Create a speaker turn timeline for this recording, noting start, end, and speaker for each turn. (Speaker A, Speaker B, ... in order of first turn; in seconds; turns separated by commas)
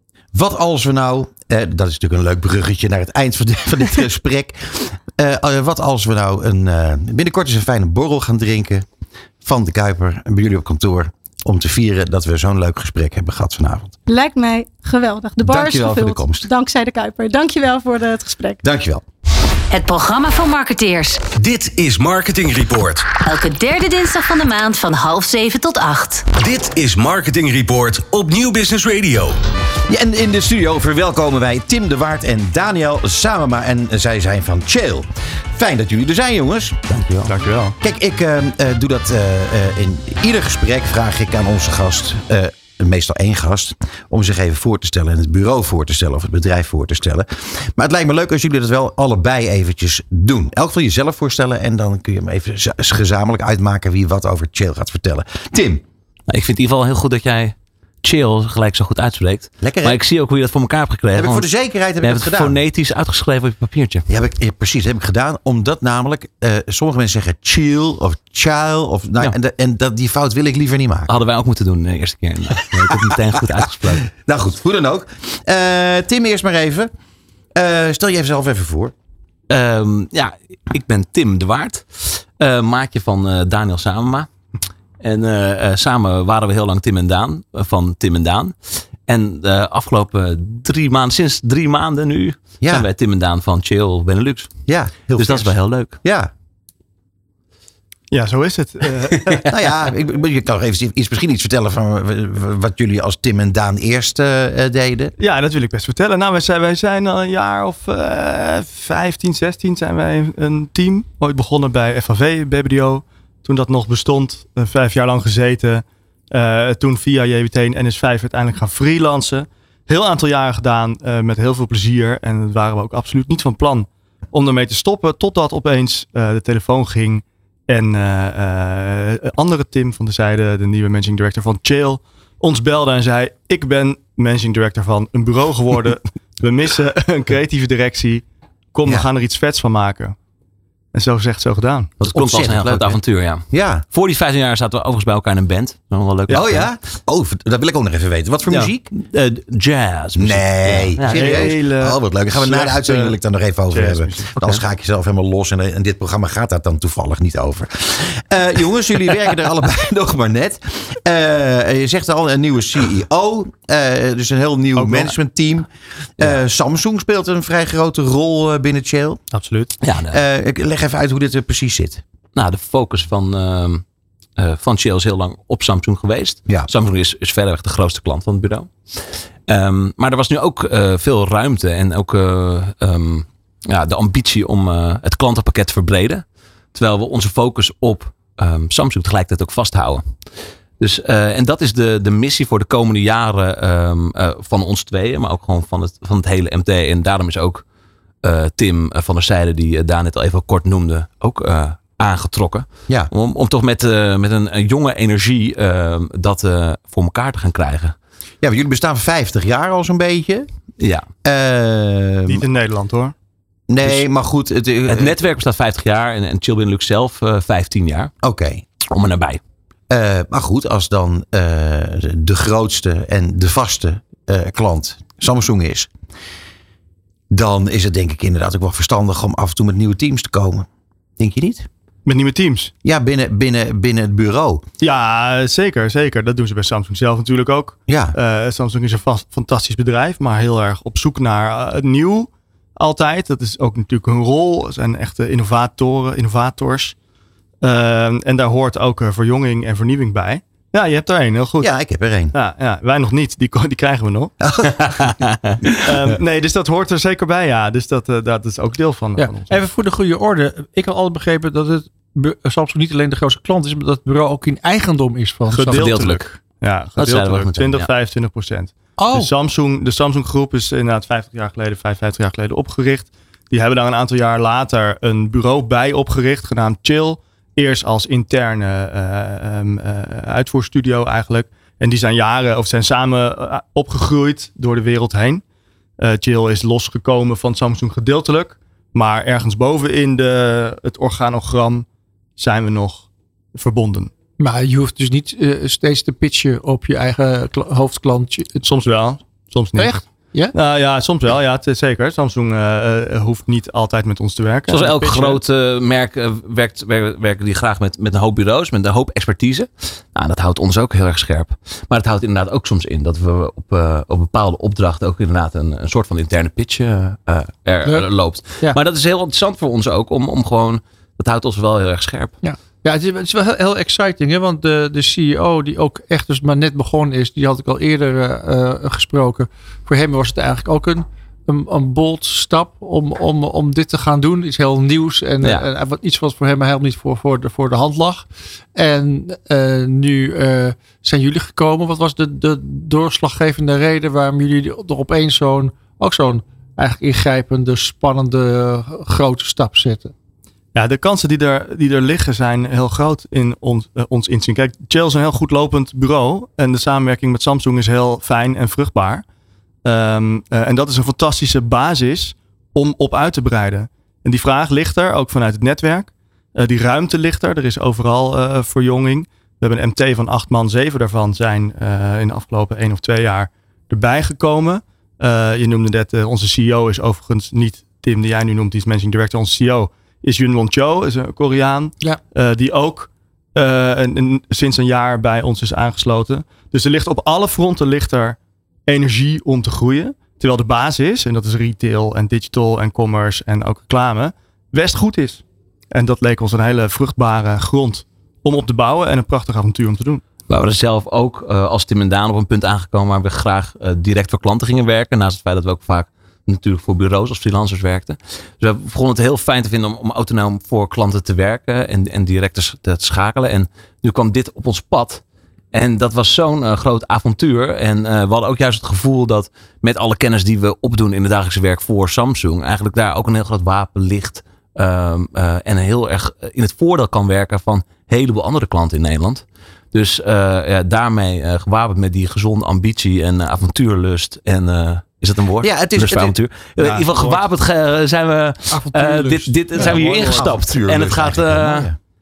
Speaker A: 0.3-8.8, Speaker A: 9.4-14.0, Speaker B: 14.1-18.6, Speaker A: 15.4-16.5, Speaker A: 18.6-19.0, Speaker C: 19.7-21.2, Speaker D: 21.3-23.1, Speaker C: 23.2-26.3, Speaker D: 26.4-29.3, Speaker A: 29.9-37.3, Speaker E: 37.2-37.7, Speaker A: 37.8-55.8, Speaker F: 56.3-61.5, Speaker A: 59.6-60.0, Speaker A: 61.1-62.6, Speaker F: 62.0-64.1, Speaker A: 64.1-71.1, Speaker F: 71.1-74.1, Speaker A: 72.7-76.9, Speaker A: 77.5-78.9, Speaker F: 79.5-84.3, Speaker F: 85.0-94.6, Speaker A: 92.6-92.9, Speaker A: 94.7-96.3, Speaker F: 95.1-96.0, Speaker E: 98.1-99.4, Speaker A: 99.5-105.1, Speaker E: 105.2-140.2, Speaker E: 140.9-141.9, Speaker A: 142.0-143.8, Speaker F: 142.0-146.7, Speaker A: 146.3-148.9, Speaker F: 148.5-151.6, Speaker A: 150.2-169.2, Speaker E: 151.0-153.2, Speaker E: 153.7-154.3, Speaker F: 154.4-154.6, Speaker E: 164.8-165.2, Speaker E: 169.3-169.7, Speaker F: 169.8-170.2, Speaker A: 170.1-172.0, Speaker F: 172.3-173.8, Speaker F: 174.4-186.2, Speaker F: 186.7-197.6, Speaker F: 198.2-208.0, Speaker A: 208.4-210.5, Speaker F: 210.8-211.1, Speaker A: 211.2-212.4, Speaker E: 212.3-213.1, Speaker A: 213.7-215.2, Speaker F: 214.9-218.1, Speaker A: 218.2-218.6, Speaker F: 218.9-219.4, Speaker A: 219.9-225.9, Speaker A: 227.3-230.7, Speaker A: 231.2-231.7, Speaker E: 232.0-232.7, Speaker A: 232.8-234.6, Speaker E: 234.8-247.0, Speaker A: 237.9-238.2, Speaker E: 247.6-251.7, Speaker A: 251.6-252.3, Speaker E: 252.3-254.3, Speaker A: 254.4-255.2, Speaker F: 255.2-255.5, Speaker E: 255.8-259.6, Speaker G: 259.2-266.2, Speaker E: 265.5-285.4, Speaker F: 265.7-266.4, Speaker F: 266.9-267.9, Speaker G: 268.9-269.3, Speaker E: 286.0-294.1, Speaker G: 294.4-298.6, Speaker E: 298.6-305.4, Speaker G: 299.7-300.5, Speaker F: 304.7-322.4, Speaker G: 317.8-318.8, Speaker G: 322.4-350.1, Speaker F: 335.4-335.7, Speaker E: 350.7-359.2, Speaker E: 359.8-400.2, Speaker F: 400.5-415.2, Speaker F: 415.7-441.9, Speaker A: 435.6-436.4, Speaker E: 436.8-437.4, Speaker G: 438.7-440.4, Speaker E: 439.8-440.3, Speaker A: 439.9-441.9